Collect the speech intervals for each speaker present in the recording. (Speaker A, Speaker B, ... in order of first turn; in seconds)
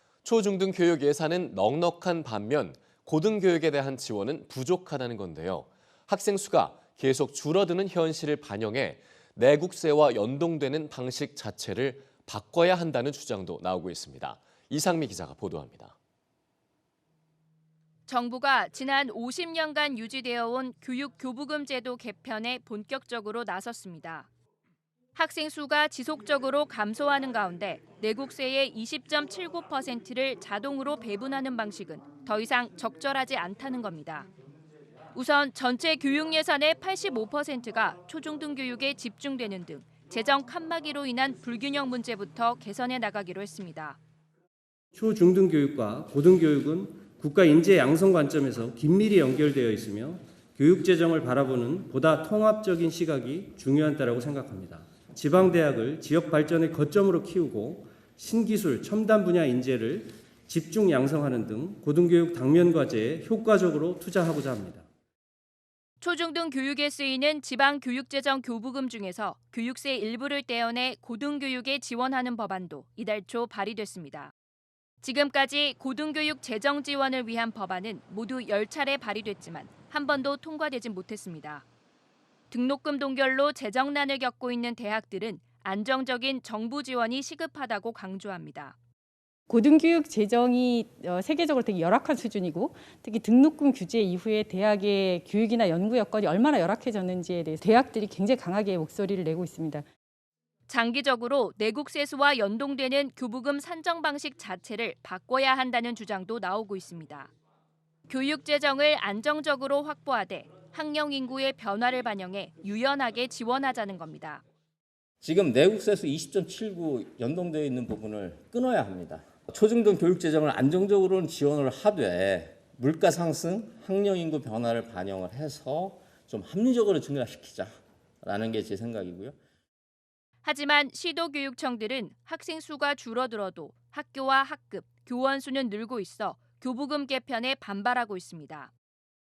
Speaker A: 0.2-15.9
Speaker B: 18.1-24.3, 25.1-34.3, 35.1-44.0, 66.0-74.3, 75.0-81.6, 82.5-88.8, 100.7-107.3, 108.1-114.4, 130.4-138.7
Speaker C: 44.9-64.9
Speaker D: 89.5-99.8
Speaker E: 115.2-127.7, 128.2-129.3